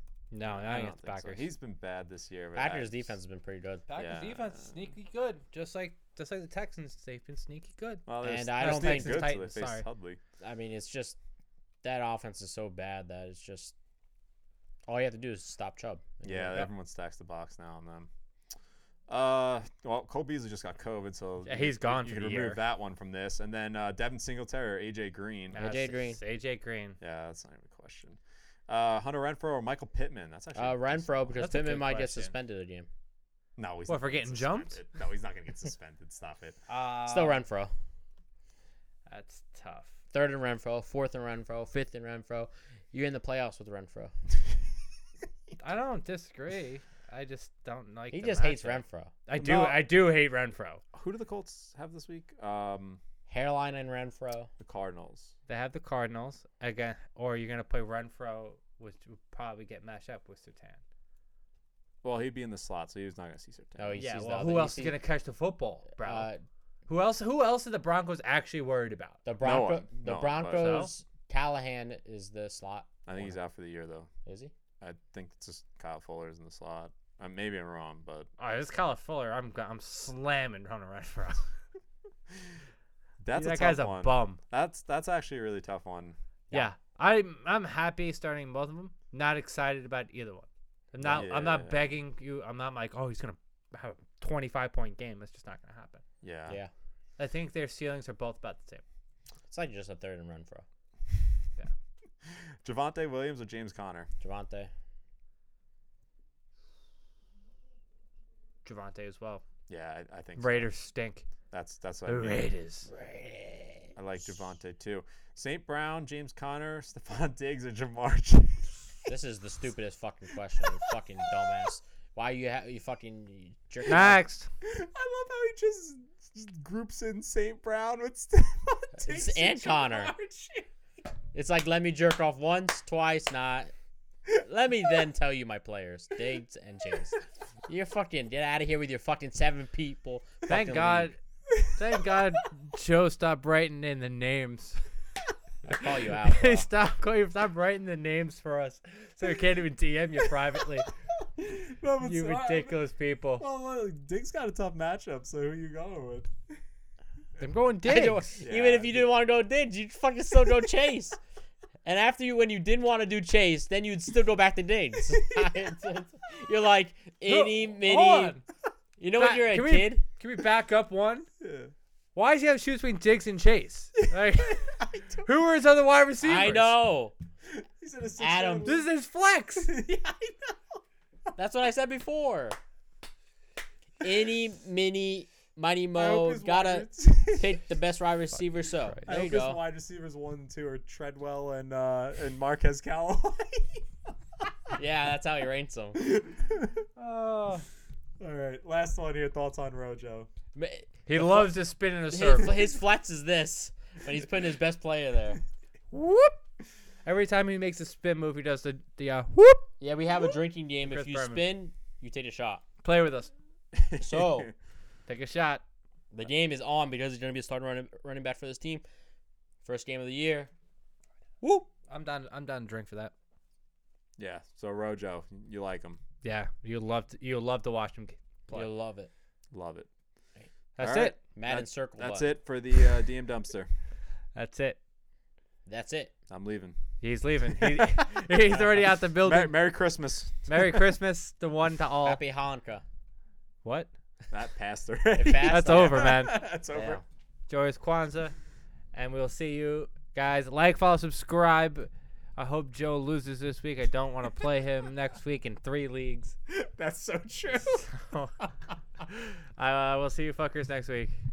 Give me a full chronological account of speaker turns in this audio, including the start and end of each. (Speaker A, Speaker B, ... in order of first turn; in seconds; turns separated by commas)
Speaker A: 0.3-1.5, Speaker B: 0.4-3.1, Speaker C: 2.5-3.9, Speaker A: 3.9-9.8, Speaker B: 4.0-4.8, Speaker B: 8.1-10.2, Speaker C: 8.2-9.3, Speaker C: 10.4-11.2, Speaker C: 11.8-13.7, Speaker C: 14.9-16.7, Speaker B: 16.2-18.1, Speaker B: 19.1-25.6, Speaker A: 21.4-22.6, Speaker C: 25.5-26.2, Speaker A: 25.5-27.0, Speaker B: 27.0-31.4, Speaker C: 30.6-32.9, Speaker A: 31.3-32.3, Speaker B: 33.6-36.6, Speaker A: 33.9-34.8, Speaker A: 36.7-37.4, Speaker C: 37.0-37.7, Speaker A: 39.1-40.0, Speaker C: 40.1-44.1, Speaker A: 45.6-50.8, Speaker C: 48.1-49.8, Speaker B: 50.9-53.0, Speaker C: 53.3-54.5, Speaker B: 54.6-55.3, Speaker A: 55.5-60.8, Speaker B: 62.0-64.0, Speaker C: 63.8-65.0, Speaker A: 64.0-66.3, Speaker C: 66.0-66.4, Speaker A: 66.9-69.2, Speaker C: 69.2-73.4, Speaker B: 69.4-70.9, Speaker A: 70.5-70.9, Speaker B: 73.1-74.1, Speaker C: 74.3-74.5, Speaker B: 74.8-78.3, Speaker A: 78.4-81.5, Speaker B: 83.2-86.2, Speaker A: 83.3-84.4, Speaker A: 86.5-96.0, Speaker B: 91.0-91.9, Speaker B: 96.2-96.6, Speaker A: 97.2-98.8, Speaker C: 99.5-100.7, Speaker B: 102.3-104.1, Speaker C: 104.2-104.7, Speaker A: 108.7-109.4, Speaker B: 109.7-110.7, Speaker A: 110.4-111.3, Speaker B: 111.5-112.5, Speaker A: 112.1-112.9, Speaker C: 112.9-113.9, Speaker B: 114.0-119.1, Speaker C: 119.1-124.2, Speaker A: 123.9-124.5, Speaker B: 124.6-130.7, Speaker C: 129.0-130.1, Speaker C: 131.3-133.7, Speaker C: 134.3-141.1, Speaker A: 140.5-144.9, Speaker C: 145.7-146.7, Speaker A: 145.8-150.9, Speaker B: 151.4-152.9, Speaker A: 152.0-153.4, Speaker B: 153.4-156.3, Speaker A: 157.4-158.4, Speaker C: 157.8-161.2, Speaker B: 158.4-159.1, Speaker C: 161.8-168.4, Speaker A: 167.3-168.4, Speaker C: 169.0-170.0, Speaker A: 169.2-171.3, Speaker B: 171.4-171.7, Speaker A: 172.2-176.8, Speaker B: 174.1-175.3, Speaker C: 176.2-177.2, Speaker B: 177.5-178.9, Speaker C: 178.2-178.8, Speaker A: 178.7-179.7, Speaker B: 179.6-180.6, Speaker C: 181.4-182.6, Speaker C: 184.0-189.6, Speaker B: 185.9-187.7, Speaker B: 189.1-194.1, Speaker C: 194.8-196.0, Speaker B: 196.0-196.9, Speaker A: 197.0-197.7, Speaker B: 198.2-200.3, Speaker C: 200.6-201.6, Speaker A: 201.1-202.7, Speaker C: 202.1-205.4, Speaker A: 205.9-206.4, Speaker A: 207.1-209.7, Speaker C: 209.8-212.7, Speaker A: 210.8-211.5, Speaker A: 212.8-213.3, Speaker B: 213.7-214.5, Speaker C: 214.0-214.5, Speaker A: 215.1-215.6, Speaker C: 216.1-218.8, Speaker C: 219.6-220.5, Speaker A: 221.4-223.1, Speaker B: 224.2-226.0, Speaker A: 226.2-228.7, Speaker C: 228.5-229.1, Speaker B: 229.5-229.9, Speaker A: 230.8-231.2, Speaker B: 230.8-233.7, Speaker C: 231.3-232.3, Speaker A: 234.3-234.8, Speaker C: 235.7-236.1, Speaker B: 236.3-236.8, Speaker A: 237.0-239.6, Speaker B: 237.6-240.8, Speaker A: 240.5-242.2, Speaker C: 242.0-242.8, Speaker A: 243.6-243.9, Speaker B: 244.3-247.0, Speaker C: 245.1-246.2, Speaker A: 245.5-246.5, Speaker C: 246.7-247.0, Speaker A: 247.5-248.3, Speaker A: 248.9-256.4, Speaker B: 256.5-257.9, Speaker A: 257.9-258.5, Speaker A: 259.0-261.1